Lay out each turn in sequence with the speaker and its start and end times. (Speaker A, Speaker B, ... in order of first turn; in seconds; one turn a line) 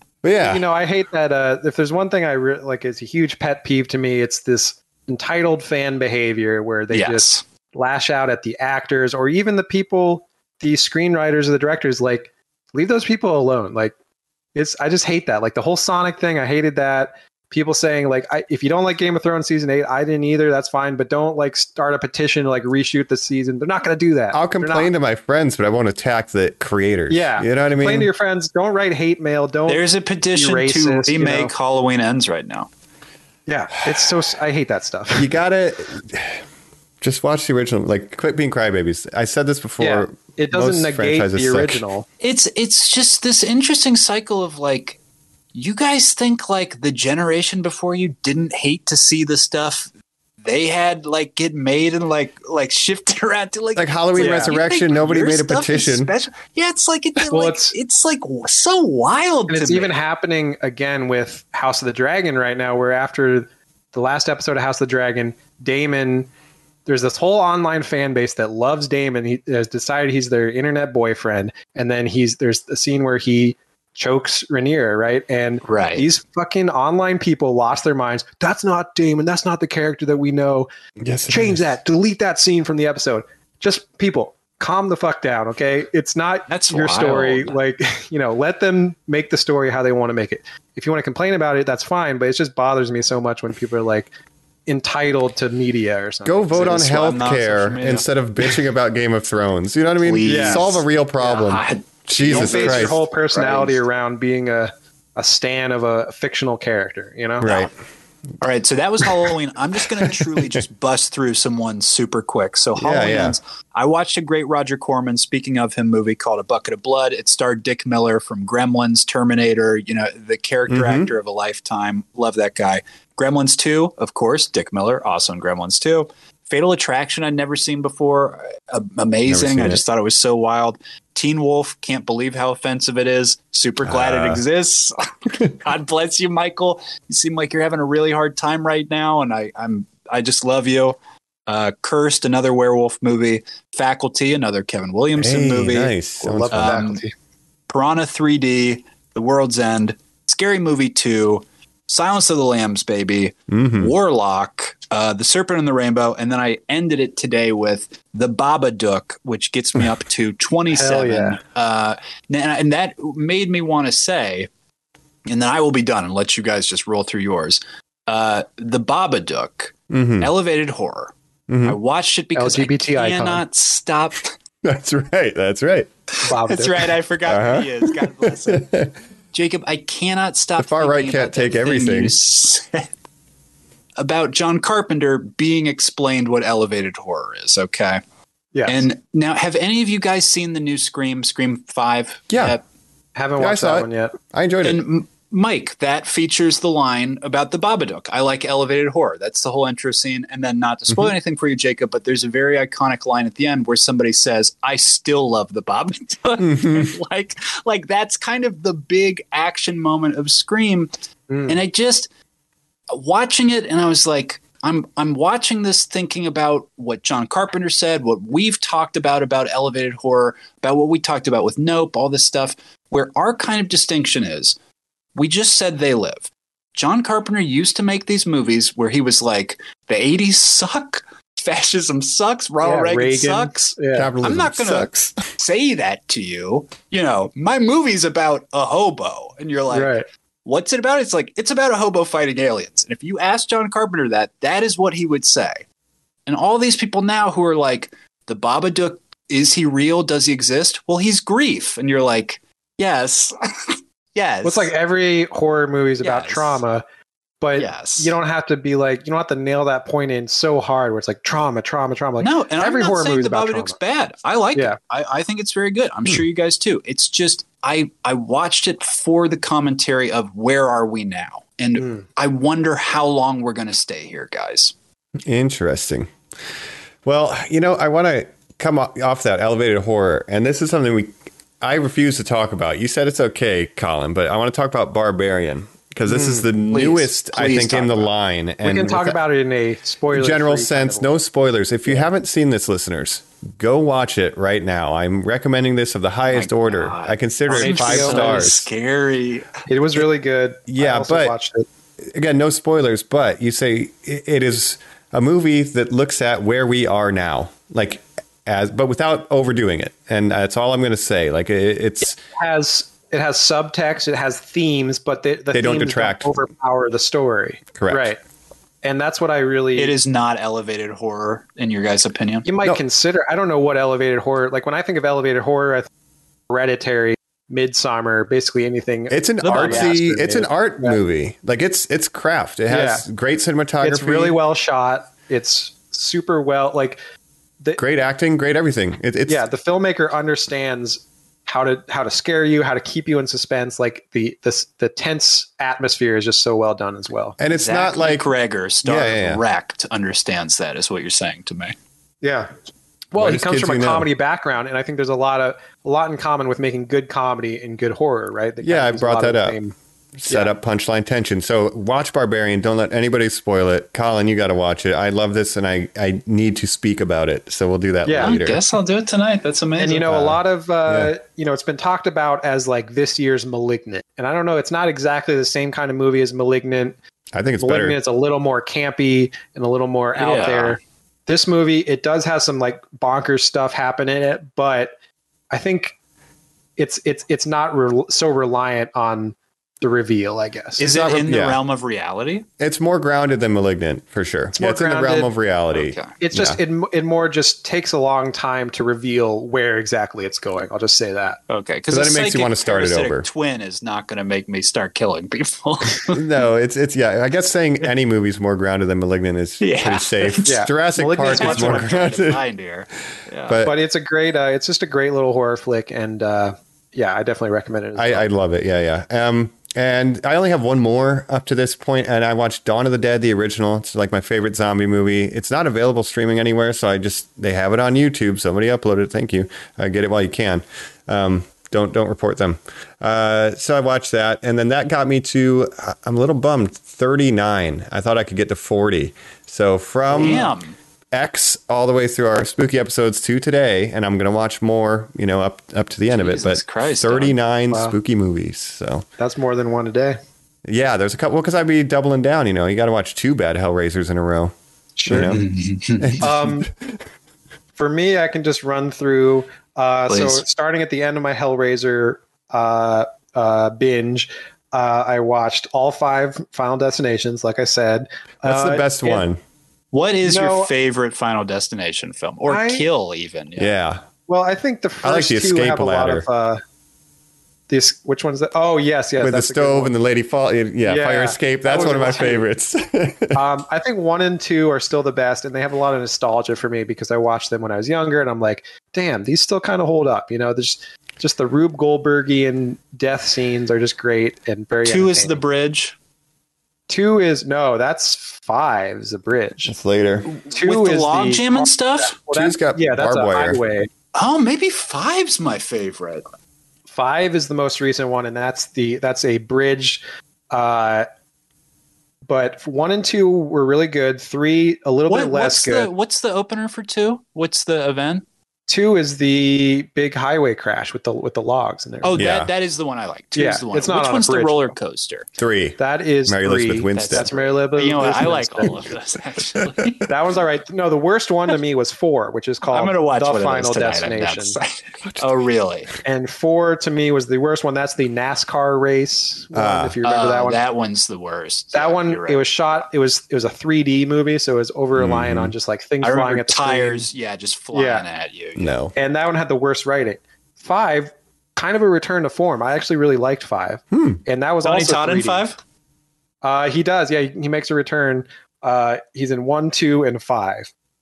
Speaker A: 0.2-0.6
Speaker B: 0.4-13.9
Speaker C: 6.9-7.4
Speaker B: 14.6-24.9
Speaker A: 24.3-28.1
Speaker B: 27.1-31.5
Speaker C: 29.7-32.7
Speaker B: 33.5-35.3
Speaker A: 35.2-36.4
Speaker A: 37.0-41.8
Speaker B: 39.8-42.1
Speaker C: 42.2-45.0
Speaker C: 45.5-49.9
Speaker C: 50.4-59.9
Speaker A: 53.8-56.1
Speaker B: 54.2-54.5
Speaker B: 57.2-57.8
Speaker B: 59.5-66.3
Speaker B: 66.9-80.7
Speaker C: 75.7-76.1
Speaker A: 81.0-81.7
Speaker B: 81.3-94.1
Speaker C: 86.5-87.6
Speaker B: 94.7-96.8
Speaker A: 96.2-103.0
Speaker C: 96.5-98.5
Speaker C: 100.0-103.8
Speaker B: 100.3-100.7
Speaker B: 102.3-107.5
Speaker A: 107.4-107.7
Speaker C: 107.4-107.7
Speaker C: 108.4-146.0
Speaker A: 110.1-110.4
Speaker A: 112.8-113.4
Speaker A: 120.7-121.1
Speaker A: 129.3-129.8
Speaker A: 133.8-134.4
Speaker A: 145.2-146.9
Speaker B: 146.2-147.1
Speaker C: 146.5-147.0
Speaker C: 147.7-164.5
Speaker A: 153.5-153.9
Speaker B: 160.7-161.4
Speaker C: 165.3-171.1
Speaker A: 169.9-170.3
Speaker A: 171.5-171.8
Speaker C: 171.6-174.3
Speaker B: 172.3-173.4
Speaker A: 174.6-175.9
Speaker B: 176.2-176.9
Speaker C: 176.4-178.7
Speaker A: 177.3-177.9
Speaker A: 178.5-178.9
Speaker C: 179.3-182.9
Speaker A: 180.6-182.1
Speaker C: 184.0-188.0
Speaker B: 188.5-188.8
Speaker C: 188.7-192.6
Speaker A: 192.3-192.6
Speaker B: 193.2-194.2
Speaker A: 193.4-194.8
Speaker C: 194.6-210.9
Speaker A: 206.4-206.9
Speaker B: 211.3-211.6
Speaker C: 211.5-212.1
Speaker C: 212.9-224.6
Speaker C: 225.2-239.9
Speaker B: 232.6-234.1
Speaker A: 233.9-235.2
Speaker B: 239.7-240.1
Speaker C: 240.4-245.6
Speaker C: 246.3-254.7
Speaker B: 254.4-256.8
Speaker C: 256.0-256.6
Speaker B: 257.4-263.8
Speaker C: 257.6-258.1
Speaker C: 262.2-274.7
Speaker B: 271.8-272.1
Speaker A: 275.2-276.1
Speaker A: 277.0-289.2
Speaker B: 286.1-286.5
Speaker C: 286.7-288.1
Speaker B: 288.6-291.1
Speaker A: 290.1-298.7
Speaker C: 296.3-299.6
Speaker B: 297.5-298.5
Speaker B: 299.7-301.7
Speaker A: 300.7-301.3
Speaker A: 302.1-312.1
Speaker B: 312.1-318.2
Speaker A: 315.5-316.3
Speaker A: 317.8-318.1
Speaker B: 318.8-320.0
Speaker C: 319.8-322.5
Speaker B: 322.4-325.9
Speaker B: 326.5-331.0
Speaker A: 329.1-334.4
Speaker C: 329.4-329.9
Speaker B: 332.7-333.1
Speaker B: 333.8-337.0
Speaker A: 337.8-339.4
Speaker B: 339.3-347.4
Speaker A: 347.4-348.3
Speaker C: 347.5-351.8
Speaker A: 348.8-349.4
Speaker B: 352.2-352.5
Speaker B: 353.1-359.7
Speaker A: 353.2-354.1
Speaker A: 358.6-359.6
Speaker A: 360.2-368.6
Speaker B: 368.1-368.4
Speaker C: 368.2-370.1
Speaker B: 369.8-377.0
Speaker A: 370.1-371.1
Speaker A: 377.3-378.0
Speaker B: 377.6-384.9
Speaker C: 380.2-380.8
Speaker B: 385.5-385.9
Speaker B: 386.8-391.3
Speaker C: 390.8-392.5
Speaker A: 391.3-391.6
Speaker A: 392.6-396.6
Speaker B: 394.6-395.3
Speaker C: 395.7-396.1
Speaker B: 396.2-401.4
Speaker C: 401.5-406.2
Speaker A: 401.9-403.3
Speaker A: 406.1-412.4
Speaker C: 409.6-410.6
Speaker B: 410.5-412.1
Speaker C: 411.2-413.6
Speaker A: 413.5-413.8
Speaker B: 413.6-418.3
Speaker A: 418.0-440.5
Speaker C: 440.1-440.8
Speaker A: 441.1-449.1
Speaker C: 446.1-447.4
Speaker B: 447.7-448.0
Speaker B: 449.2-450.2
Speaker A: 450.7-454.5
Speaker B: 455.0-455.4
Speaker A: 455.1-455.4
Speaker C: 455.1-456.3
Speaker A: 456.0-456.6
Speaker B: 456.2-456.7
Speaker B: 457.8-469.2
Speaker C: 460.1-460.4
Speaker A: 468.4-469.4
Speaker C: 469.9-473.8
Speaker B: 470.2-470.7
Speaker B: 472.5-472.9
Speaker A: 473.6-474.1
Speaker B: 474.3-476.6
Speaker A: 475.0-476.3
Speaker B: 477.7-479.9
Speaker A: 479.2-483.4
Speaker B: 480.9-482.5
Speaker B: 483.3-495.4
Speaker C: 494.8-495.9
Speaker B: 496.9-499.8
Speaker A: 499.7-500.3
Speaker C: 500.3-502.2
Speaker B: 500.5-503.9
Speaker A: 502.3-503.6
Speaker C: 504.1-506.2
Speaker B: 506.9-511.1
Speaker B: 512.3-515.9
Speaker C: 515.1-518.2
Speaker B: 518.7-522.2
Speaker C: 522.0-525.3
Speaker A: 522.2-522.5
Speaker B: 523.4-524.7
Speaker A: 525.4-527.3
Speaker B: 525.8-528.8
Speaker C: 526.9-530.0
Speaker B: 530.1-534.6
Speaker C: 532.7-535.9
Speaker B: 536.0-540.6
Speaker A: 539.5-540.0
Speaker C: 540.0-542.5
Speaker B: 541.7-547.1
Speaker A: 545.0-545.5
Speaker C: 546.0-548.8
Speaker B: 547.7-548.0
Speaker A: 548.6-548.9
Speaker B: 549.0-555.5
Speaker A: 553.9-554.2
Speaker C: 554.6-555.6
Speaker B: 556.4-560.7